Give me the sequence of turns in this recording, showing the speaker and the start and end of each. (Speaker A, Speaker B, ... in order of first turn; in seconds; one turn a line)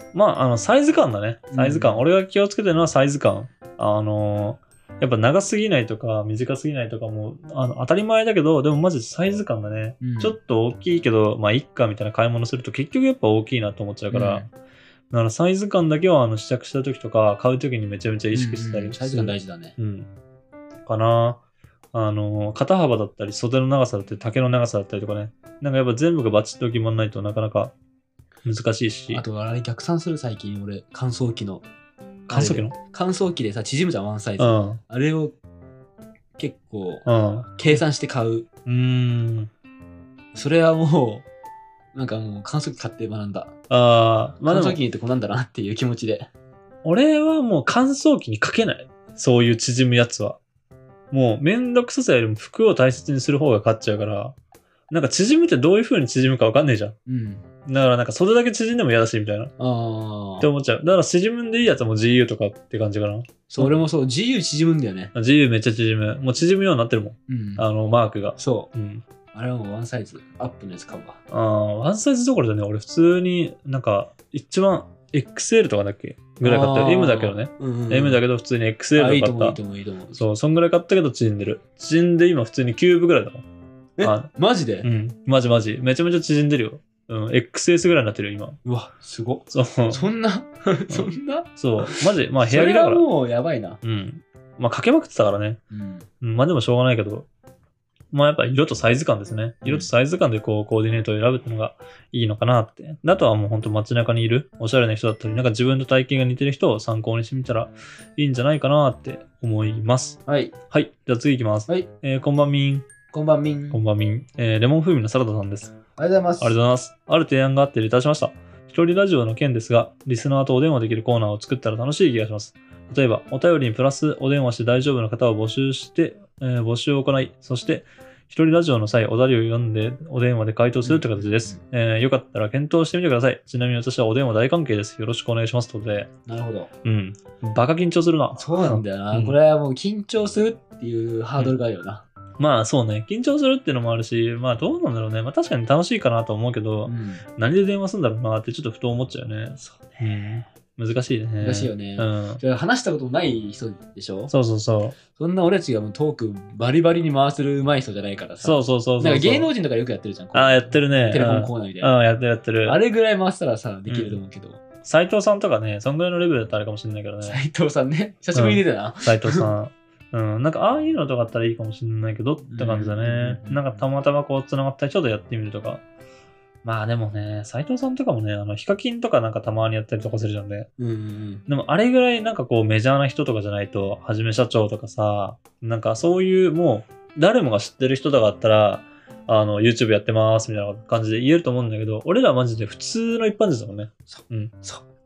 Speaker A: 0.1-14.4
Speaker B: 1.5-2.1
Speaker B: 10.0-10.4
Speaker B: 14.1-14.5
Speaker A: 15.1-20.1
Speaker B: 18.3-19.8
Speaker A: 20.9-21.4
Speaker A: 21.9-27.7
Speaker A: 28.4-29.2
Speaker B: 29.1-31.6
Speaker B: 32.3-35.4
Speaker A: 32.3-32.8
Speaker A: 34.4-34.8
Speaker B: 36.4-37.0
Speaker A: 37.0-37.5
Speaker B: 37.6-38.5
Speaker A: 38.6-39.5
Speaker B: 40.3-41.2
Speaker B: 41.9-43.5
Speaker A: 43.7-44.8
Speaker B: 44.5-46.3
Speaker A: 46.8-50.4
Speaker A: 51.1-54.3
Speaker A: 54.9-57.0
Speaker B: 57.0-57.5
Speaker A: 57.6-59.5
Speaker B: 59.6-60.5
Speaker A: 60.4-63.8
Speaker B: 63.5-65.1
Speaker A: 65.1-69.0
Speaker B: 67.3-67.7
Speaker B: 68.4-68.7
Speaker B: 69.3-71.2
Speaker A: 71.3-79.6
Speaker B: 76.4-78.2
Speaker B: 78.9-80.2
Speaker A: 80.1-83.4
Speaker B: 84.0-84.9
Speaker A: 84.0-84.3
Speaker A: 84.8-88.6
Speaker B: 88.6-93.8
Speaker A: 89.5-90.1
Speaker A: 90.9-93.0
Speaker A: 93.8-95.6
Speaker B: 95.7-96.1
Speaker A: 96.2-97.3
Speaker A: 98.1-110.2
Speaker B: 99.6-99.9
Speaker B: 110.2-110.5
Speaker A: 110.7-112.8
Speaker B: 113.1-113.8
Speaker A: 113.7-115.7
Speaker B: 116.0-116.6
Speaker A: 116.4-136.1
Speaker B: 130.8-131.6
Speaker B: 136.3-136.7
Speaker A: 136.8-139.3
Speaker B: 138.3-142.0
Speaker A: 142.4-152.4
Speaker B: 146.8-147.2
Speaker B: 149.6-150.3
Speaker B: 151.4-154.3
Speaker A: 154.3-155.0
Speaker B: 155.1-162.0
Speaker A: 158.4-159.5
Speaker A: 160.3-162.8
Speaker B: 162.6-164.6
Speaker A: 163.9-164.2
Speaker A: 164.8-167.4
Speaker B: 167.2-169.5
Speaker A: 168.3-175.8
Speaker B: 172.5-173.9
Speaker A: 176.6-180.7
Speaker B: 180.8-181.4
Speaker A: 181.5-194.5
Speaker B: 194.1-194.8